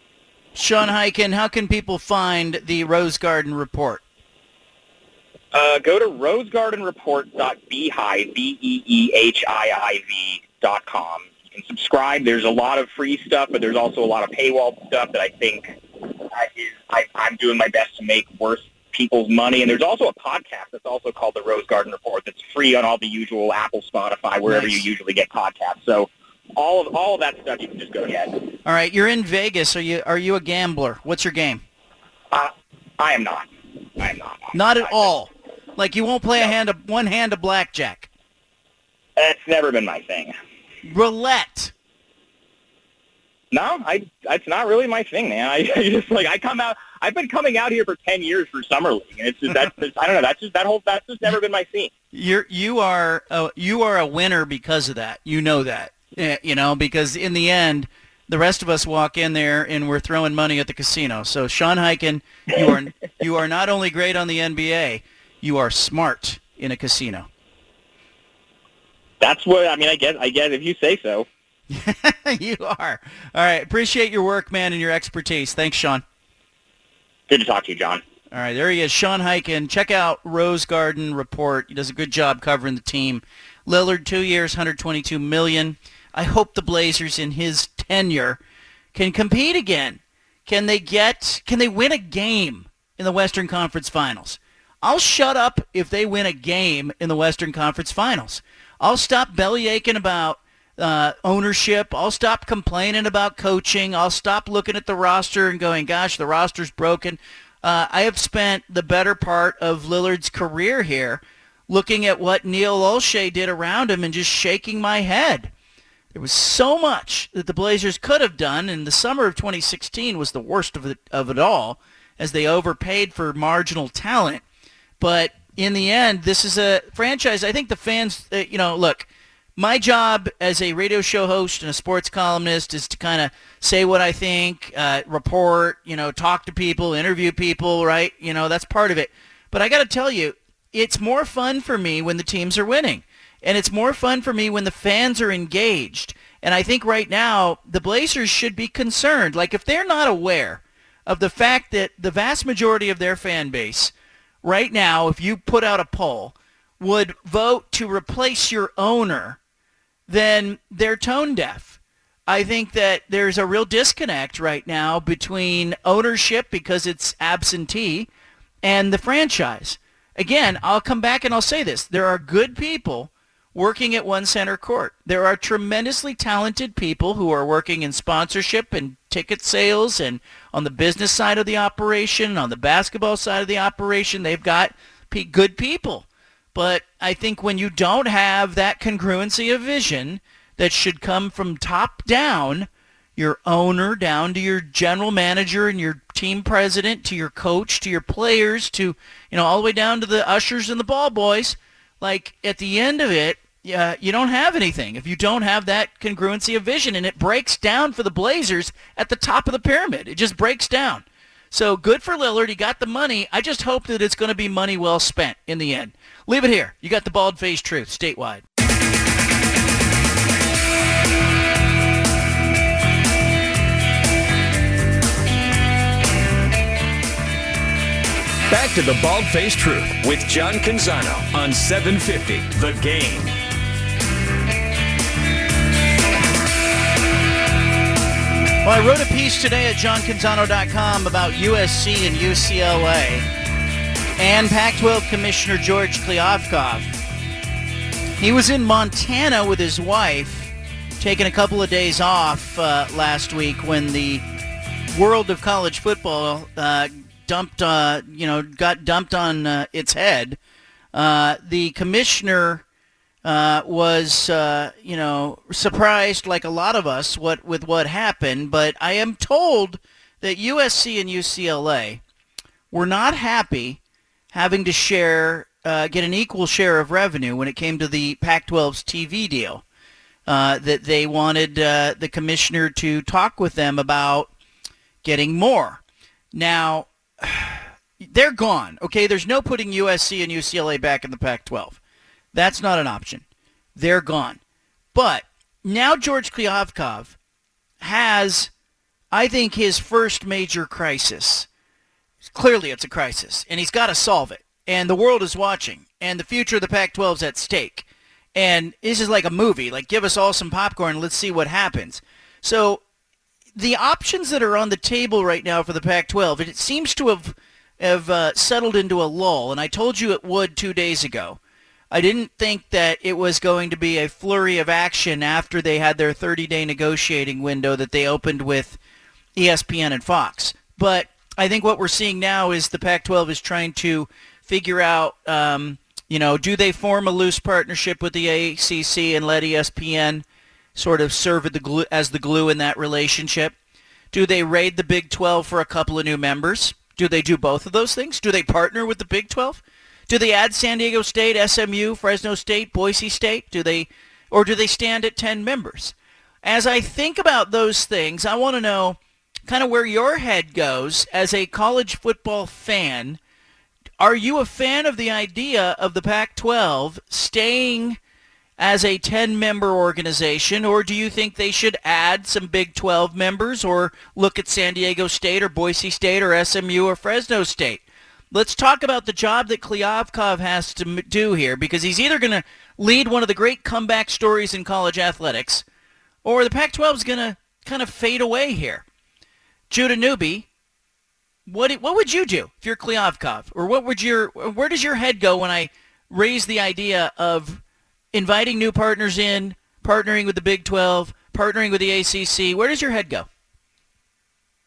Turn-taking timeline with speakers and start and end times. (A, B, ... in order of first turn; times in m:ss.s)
0:00.6-0:04.0 A
0:05.5-0:28.4 B
0:24.5-0:24.8 A
0:28.6-0:31.6 A
0:32.3-0:35.1 B
0:34.5-0:38.1 A
0:39.2-0:40.4 B
0:40.9-0:41.7 A
0:43.5-0:51.9 B
0:52.1-1:07.3 A
1:09.2-1:11.3 B
1:11.7-1:16.0 A
1:17.3-1:18.0 B
1:18.3-1:28.4 A
1:28.9-1:55.5 A
1:56.1-2:04.4 A
2:05.0-2:33.9 A
2:34.4-2:39.4 A
2:40.1-2:48.1 A
2:48.6-3:38.4 A
3:48.5-3:53.4 C
3:58.6-4:03.3 A
4:04.2-4:07.0 A
4:08.2-4:14.2 A
4:14.9-4:20.4 A
4:20.9-4:22.6 A
4:23.2-4:32.0 A
4:32.7-4:33.8 A
4:34.3-4:39.6 A
4:40.3-4:44.3 A
4:45.0-4:45.8 A
4:46.3-4:51.8 A
4:52.3-4:53.2 A
4:53.8-4:54.4 A
4:54.9-4:57.2 A
4:57.8-4:58.5 A
4:59.1-5:01.5 A
5:02.2-5:12.8 A
5:13.6-5:21.4 A
5:21.9-5:28.8 A
5:29.4-5:40.2 A
5:40.8-5:43.6 A
5:44.1-6:03.2 A
6:04.0-6:08.0 A
6:08.6-6:25.6 A
6:26.2-6:28.8 A
6:29.7-6:30.5 A
6:31.5-6:37.6 A
6:38.1-6:43.3 A